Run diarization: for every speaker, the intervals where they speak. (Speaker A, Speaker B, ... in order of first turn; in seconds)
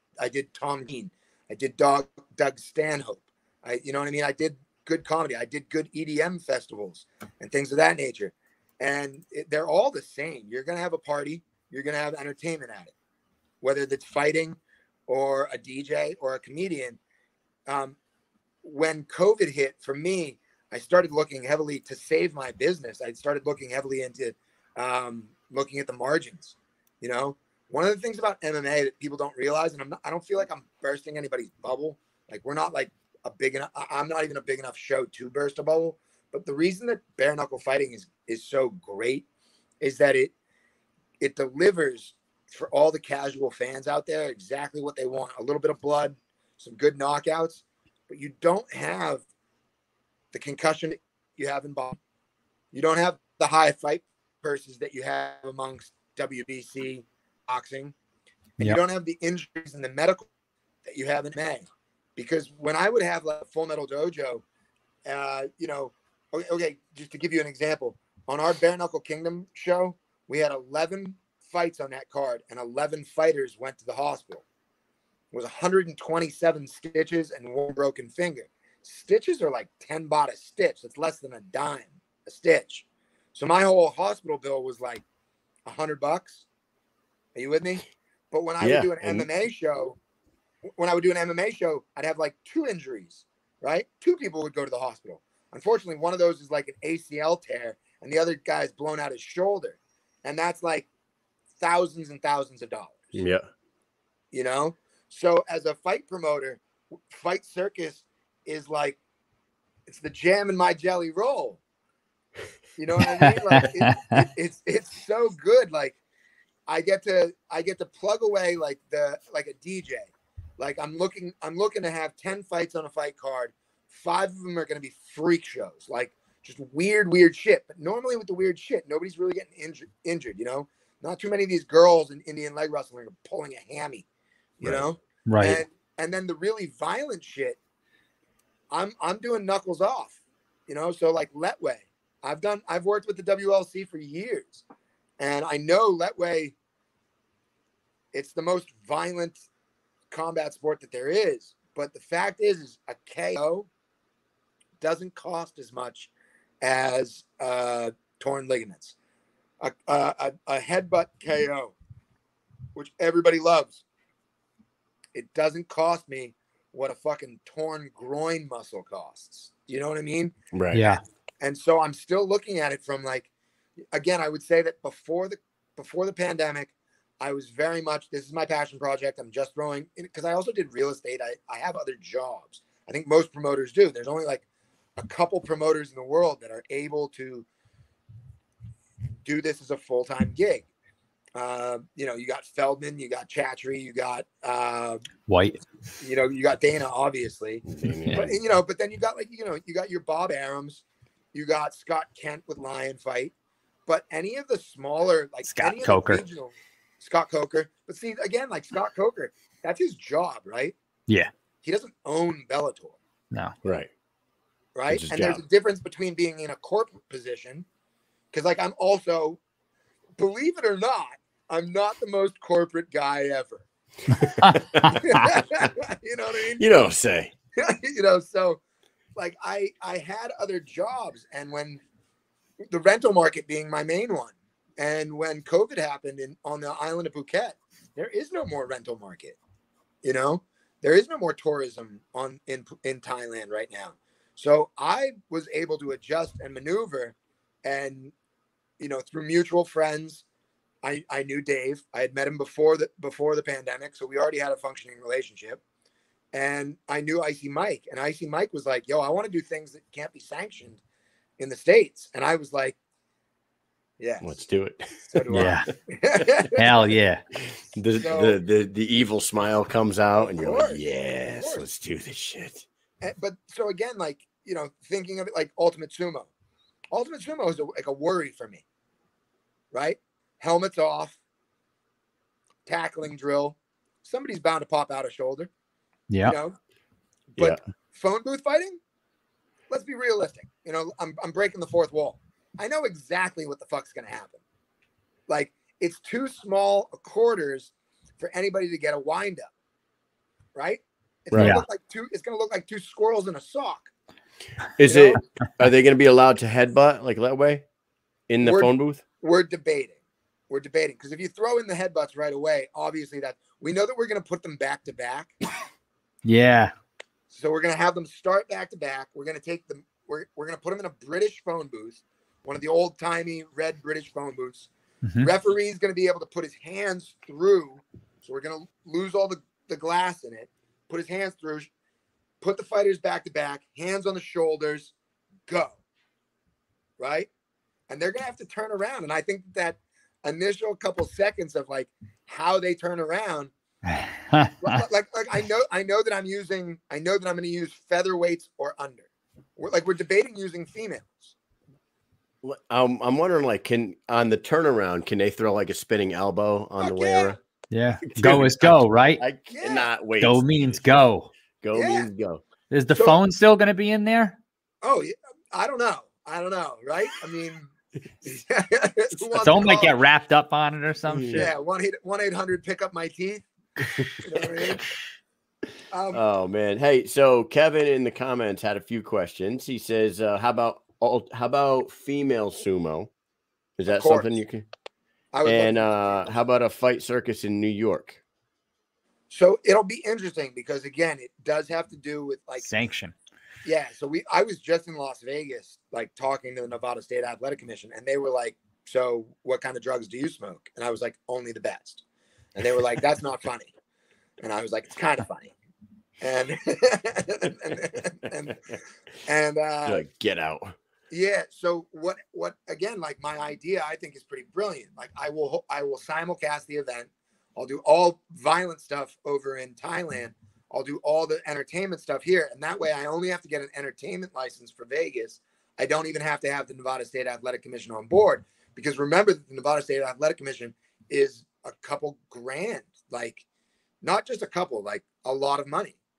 Speaker A: 0.2-12.9, 13.6-17.0, 17.7-18.0, 18.6-39.3, 39.8-40.3, 41.2-49.2, 50.3-52.0, 52.7-57.9, 58.6-60.3, 60.9-64.4, 65.1-74.4, 75.3-85.0, 85.7-86.5, 87.3-90.0, 90.8-100.9, 101.6-103.2, 104.3-109.0, 109.9-111.6, 112.8-116.0, 116.7-134.1, 134.6-137.6, 138.7-144.6, 145.2-146.6, 148.1-149.5, 150.1-153.7, 154.8-156.1, 156.6-159.0, 159.6-161.8, 162.8-163.8, 165.1-170.3, 171.4-173.3, 173.9-184.4, 185.0-187.5, 189.2-190.7, 191.3-195.1, 196.0-203.3, 203.9-210.8, 211.6-213.0, 214.8-217.7, 218.3-219.4, 220.2-223.6, 224.8-226.7, 227.6-228.6, 229.2-231.8, 232.7-239.4, 240.0-248.1, 248.8-250.2, 250.8-255.6, 256.3-260.8, 261.4-262.8, 264.0-264.4, 265.1-266.6, 268.0-268.4, 270.3-271.6, 273.0-276.3, 276.9-278.6, 279.7-281.2, 282.7-285.5, 286.3-286.6, 287.3-288.8, 289.7-294.4, 295.3-299.5, 300.6-303.9, 304.8-305.2, 308.4-310.0, 310.5-315.4, 317.3-331.7, 332.4-334.9, 335.5-335.8, 337.0-337.3, 337.9-343.5, 344.6-351.3, 356.8-357.4, 359.5-359.9, 361.7-362.1, 364.8-367.7, 368.2-369.9, 371.3-373.5, 374.2-374.9, 375.9-376.2, 383.9-384.3, 385.3-386.3, 389.3-392.7, 393.6-402.0, 402.6-403.7, 404.4-405.6, 406.2-410.0, 411.1-433.4, 434.0-436.0
Speaker B: 88.6-89.3, 103.1-103.5, 134.6-134.8, 170.5-170.9, 197.7-198.4, 213.6-213.9, 214.9-215.4, 224.1-224.6, 226.6-227.3, 264.2-265.6, 267.4-272.7, 301.3-301.6, 304.8-307.6, 308.3-309.0, 352.4-357.4, 358.1-360.8, 361.6-362.4, 371.1-371.5, 373.8-374.8, 376.1-383.1, 383.8-384.6, 385.4-388.2, 409.9-410.8
Speaker C: 113.2-114.2, 135.3-135.6, 170.7-171.0, 195.3-195.6, 205.4-206.2, 224.4-225.2, 265.3-265.7, 266.6-267.2, 286.1-286.4, 301.4-301.6, 316.2-316.7, 325.0-325.3, 343.9-344.8, 357.7-359.2, 360.2-361.3, 362.7-364.4, 369.4-371.5, 392.6-393.1